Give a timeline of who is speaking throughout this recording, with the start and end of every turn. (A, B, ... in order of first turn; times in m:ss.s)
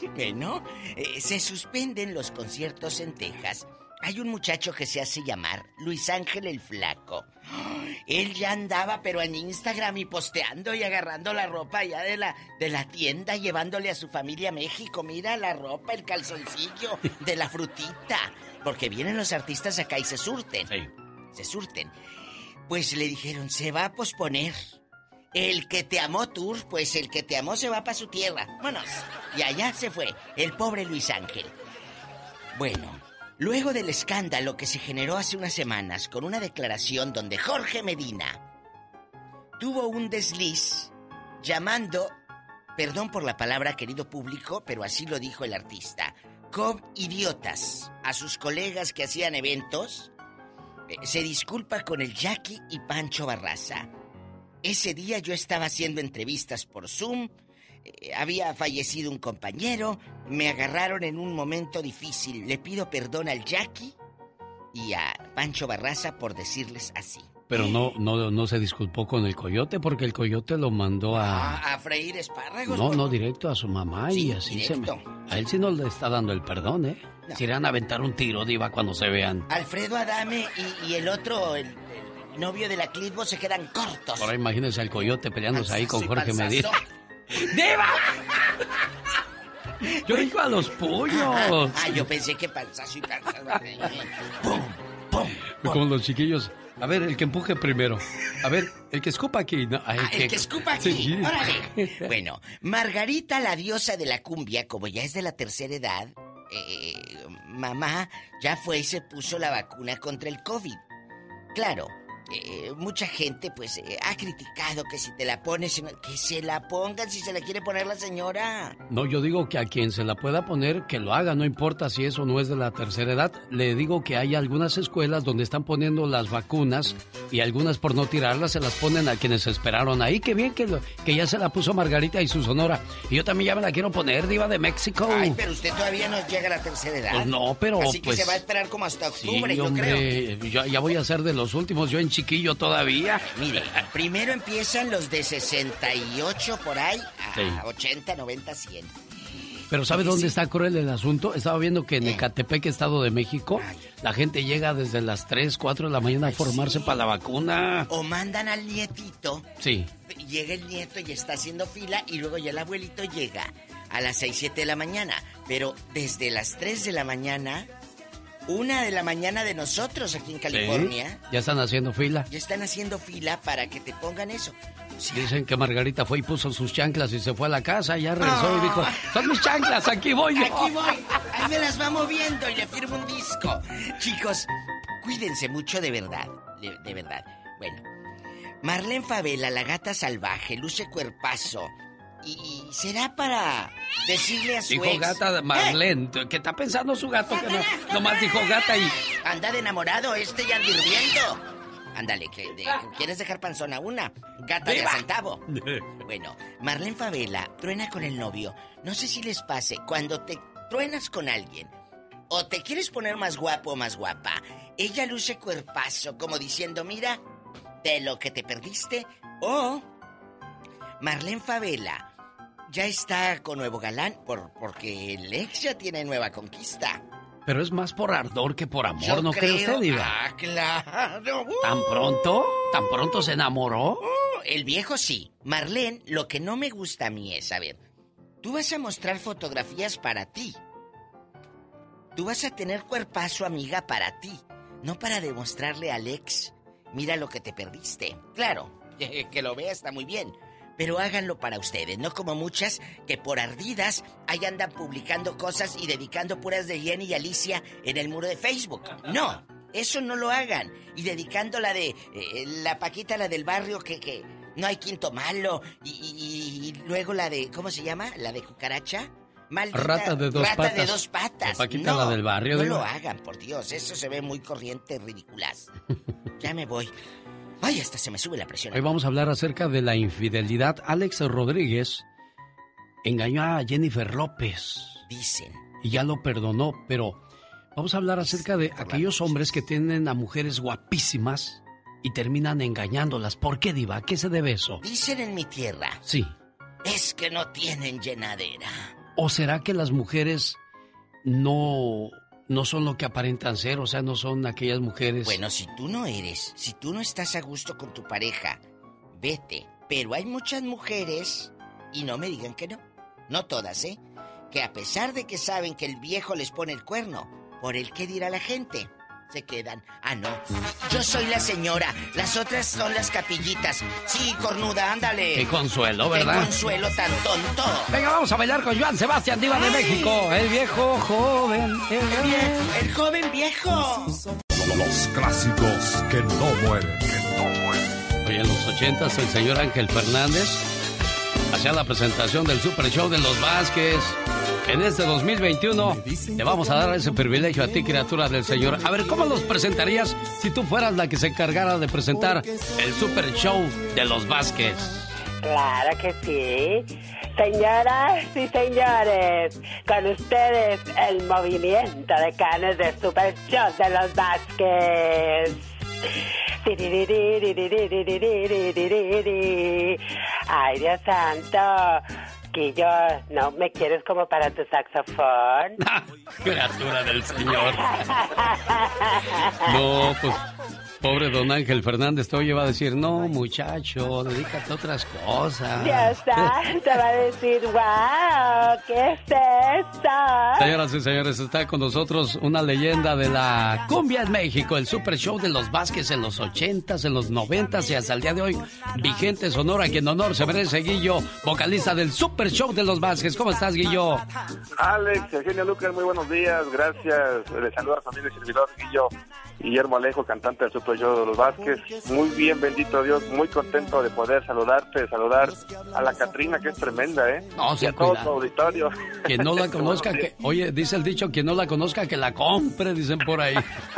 0:00.1-0:20.7 A
0:21.3-0:21.9 A
0:22.7-0:24.8 A
0:25.3-0:31.6 A
0:32.5-0:38.4 A
0:39.6-0:42.1 A
0:42.8-0:50.1 A
0:50.9-0:53.9 A
0:54.6-1:03.9 A
1:04.7-1:07.8 A
1:07.5-1:11.6 B
1:11.1-1:13.2 A
1:12.7-1:19.5 B
1:14.1-1:15.3 A
1:19.5-1:24.3 A
1:24.2-1:26.7 B
1:25.5-1:26.8 A
1:27.4-1:28.1 B
1:30.0-1:32.1 B
1:30.1-1:30.3 A
1:31.1-1:35.8 A
1:35.6-1:42.1 B
1:40.0-1:50.8 A
1:51.5-1:58.8 A
1:58.9-2:15.4 B
2:15.1-2:20.1 A
2:17.1-2:18.4 B
2:19.2-2:23.8 B
2:23.2-2:30.4 A
2:27.4-2:27.6 B
2:29.7-2:37.9 B
2:32.0-2:32.3 A
2:33.6-2:33.9 A
2:36.2-2:37.0 A
2:37.9-2:39.4 A
2:39.6-2:39.9 B
2:40.0-2:47.7 A
2:48.5-2:51.2 A
2:50.5-2:52.3 B
2:52.3-2:55.3 A
2:55.1-3:00.7 B
2:58.2-2:59.0 A
3:00.3-3:04.5 A
3:05.0-3:07.8 A
3:08.6-3:15.8 A
3:14.7-3:19.0 B
3:17.5-3:17.9 A
3:19.2-3:25.4 A
3:24.6-3:25.9 B
3:26.0-3:31.7 A
3:32.3-3:37.2 A
3:37.8-3:39.9 A
3:41.0-3:42.1 A
3:42.7-3:47.0 A
3:47.4-3:50.1 B
3:49.0-3:51.8 A
3:51.6-3:54.0 B
3:54.0-3:57.8 A
3:58.4-4:00.6 A
4:02.1-4:35.7 A
4:29.7-4:32.9 B
4:36.4-4:36.9 A
4:37.6-4:38.9 A
4:38.7-4:42.0 B
4:43.0-4:45.0 B
4:45.1-4:45.6 A
4:45.8-4:47.2 B
4:47.7-4:54.8 B
4:48.2-4:49.6 A
4:54.8-4:56.0 A
4:56.0-4:56.3 B
4:56.8-4:58.9 A
4:59.2-5:00.6 B
5:01.2-5:05.4 B
5:05.2-5:08.6 A
5:09.2-5:14.0 A
5:14.5-5:25.5 A
5:25.3-5:26.5 B
5:26.1-5:27.9 A
5:27.9-5:32.6 B
5:29.5-5:30.2 A
5:32.1-5:34.2 A
5:34.6-5:37.2 C
5:37.4-5:37.7 D
5:38.2-5:40.7 B
5:41.5-5:55.1 B
5:55.4-6:05.7 E
6:06.6-6:15.8 E
6:15.8-6:17.9 B
6:17.6-6:19.8 E
6:19.6-6:20.4 B
6:21.0-6:26.6 B
6:25.8-6:30.7 E
6:30.6-6:44.3 B
6:44.7-7:00.3 D
6:57.6-6:58.4 B
6:59.3-7:03.6 B